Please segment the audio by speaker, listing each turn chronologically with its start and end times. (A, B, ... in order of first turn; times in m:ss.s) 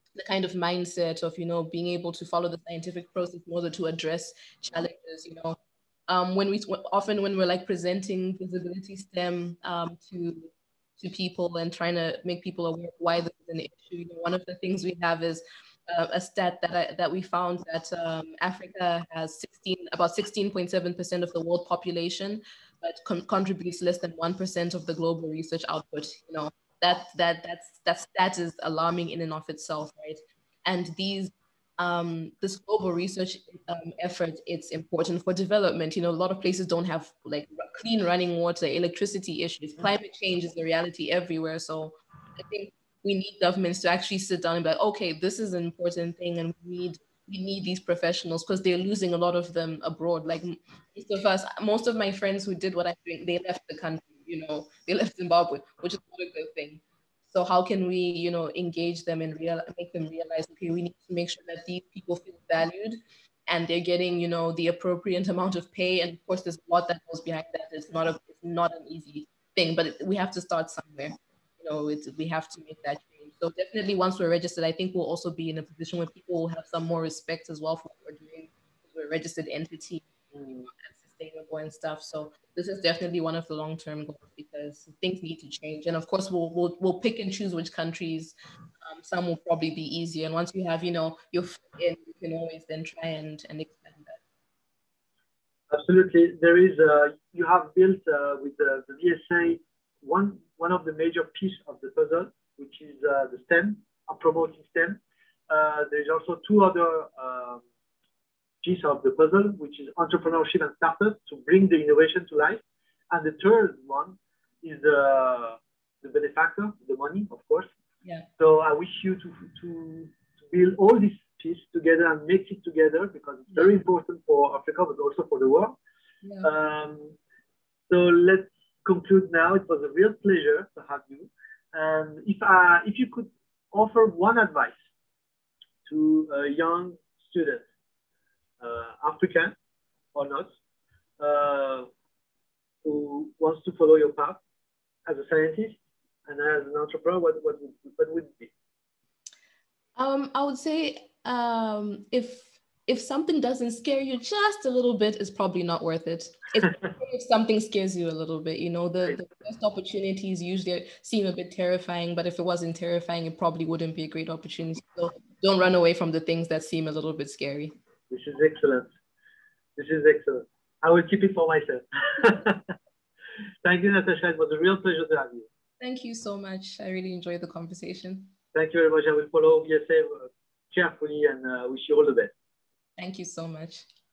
0:00.2-1:34.2 A
1:20.3-1:20.6 B
1:35.7-1:47.6 B
1:48.6-1:57.7 B
1:58.4-2:05.8 B
2:06.2-2:06.5 A
2:06.4-2:07.2 B
2:07.9-2:14.8 B
2:15.9-2:17.6 B
2:18.6-2:19.5 B
2:20.1-2:20.5 B
2:21.2-2:21.9 B
2:22.8-2:24.4 B
2:25.0-2:28.5 B
2:30.0-2:47.7 A
2:48.1-2:48.9 B
2:49.8-2:52.7 B
2:53.6-2:55.5 B
2:55.8-2:58.3 A
2:58.5-3:02.3 B
3:03.0-3:03.8 A